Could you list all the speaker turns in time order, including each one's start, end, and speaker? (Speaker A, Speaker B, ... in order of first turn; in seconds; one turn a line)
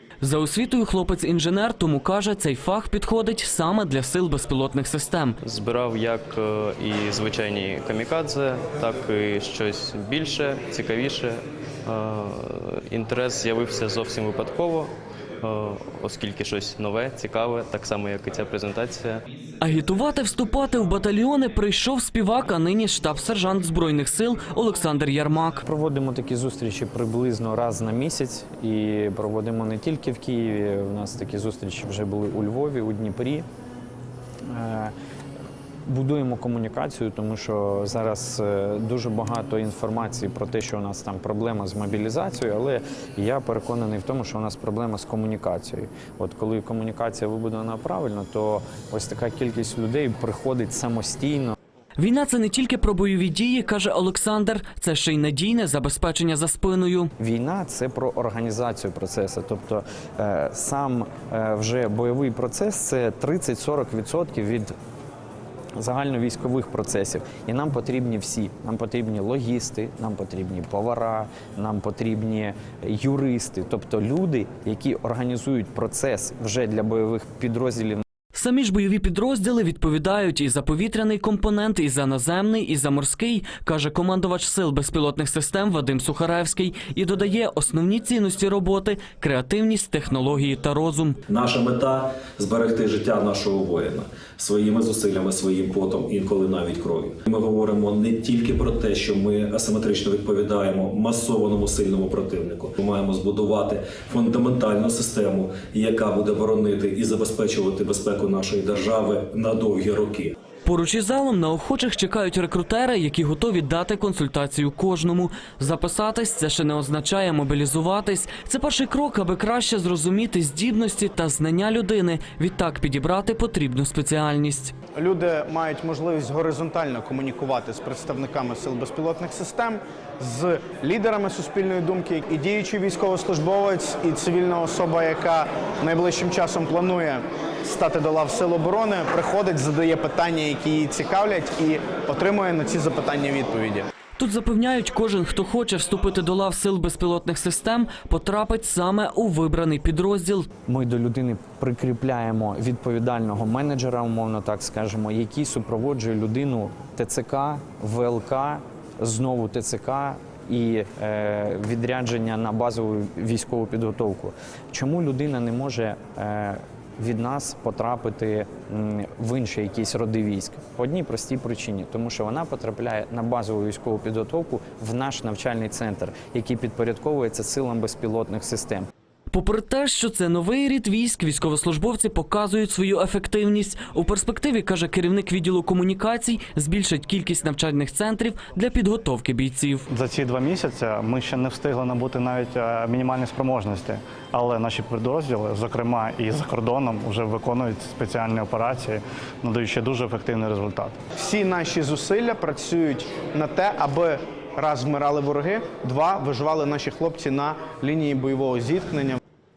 Speaker A: 0.2-5.3
Speaker B: 5.4-19.2
Speaker A: 19.6-25.6
Speaker C: 25.6-33.5
Speaker C: 34.5-34.9
Speaker C: 35.9-51.5
Speaker A: 52.0-57.1
Speaker C: 57.2-64.7
Speaker C: 65.8-78.0
Speaker A: 78.3-91.2
Speaker D: 91.3-110.3
Speaker A: 110.7-124.7
Speaker E: 125.0-143.9
Speaker A: 144.2-150.5
Speaker C: 150.7-178.8
Speaker A: 179.3-189.8
Speaker F: 189.9-201.0
Speaker E: 201.2-209.2